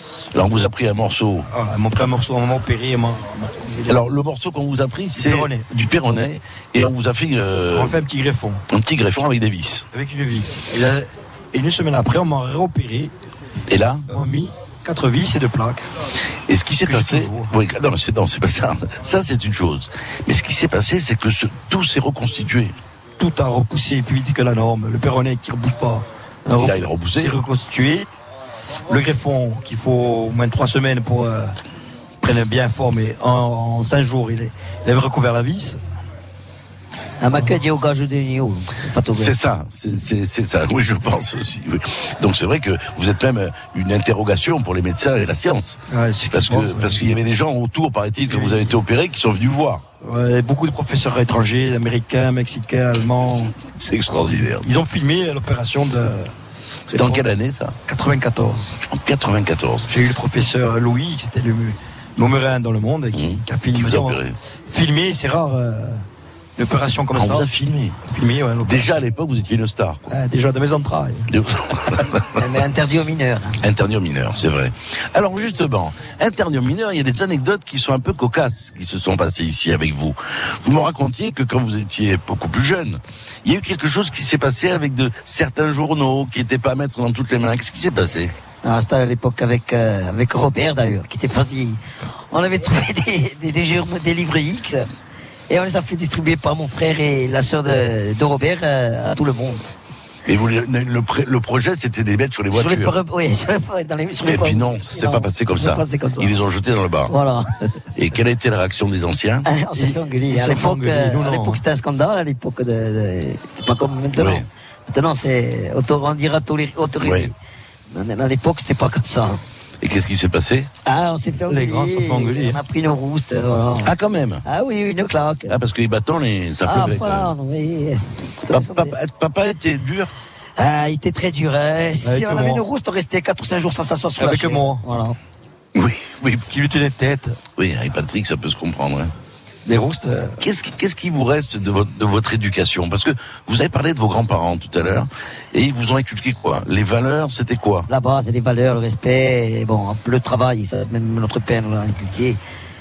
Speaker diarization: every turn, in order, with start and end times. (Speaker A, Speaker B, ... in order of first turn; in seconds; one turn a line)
Speaker A: 0.3-1.5
Speaker B: 1.5-3.9
Speaker A: 3.9-8.0
Speaker B: 5.2-5.6
Speaker B: 7.7-8.6
Speaker A: 8.7-9.8
Speaker B: 9.9-13.1
Speaker A: 13.7-14.0
Speaker B: 14.1-15.9
Speaker A: 16.5-22.7
Speaker B: 16.9-17.5
Speaker B: 23.2-28.1
Speaker A: 26.6-27.4
Speaker B: 28.9-31.6
Speaker B: 32.2-35.8
Speaker C: 37.2-39.3
Speaker A: 39.1-45.8
Speaker B: 45.9-47.2
Speaker A: 46.3-49.8
Speaker B: 48.2-48.7
Speaker B: 50.0-53.5
Speaker A: 53.7-54.7
Speaker B: 54.2-56.3
Speaker A: 56.9-57.8
Speaker B: 56.9-57.2
Speaker B: 57.9-58.8
Speaker A: 58.9-59.9
Speaker B: 59.9-66.0
Speaker A: 63.1-64.3
Speaker B: 66.6-69.0
Speaker A: 67.1-68.0
Speaker A: 68.6-70.1
Speaker B: 70.1-71.3
Speaker A: 71.3-72.4
Speaker C: 72.3-73.6
Speaker A: 73.6-88.3
Speaker C: 88.6-94.9
Speaker C: 95.5-99.7
Speaker A: 100.2-102.9
Speaker C: 102.5-106.4
Speaker A: 104.2-107.1
Speaker C: 107.1-107.7
Speaker A: 108.0-109.5
Speaker C: 109.4-117.3
Speaker B: 109.8-111.6
Speaker A: 114.1-114.5
Speaker A: 117.0-117.3
Speaker C: 117.9-119.4
Speaker A: 119.8-120.7
Speaker C: 120.8-123.9
Speaker B: 121.5-122.6
Speaker A: 123.8-124.4
Speaker C: 124.4-125.5
Speaker A: 125.5-127.3
Speaker C: 126.6-128.9
Speaker A: 128.5-130.1
Speaker C: 130.6-135.2
Speaker B: 132.0-132.6
Speaker B: 134.2-134.8
Speaker A: 135.7-136.5
Speaker B: 136.4-137.4
Speaker A: 137.6-139.1
Speaker B: 139.7-140.4
Speaker A: 140.4-147.9
Speaker C: 147.9-152.4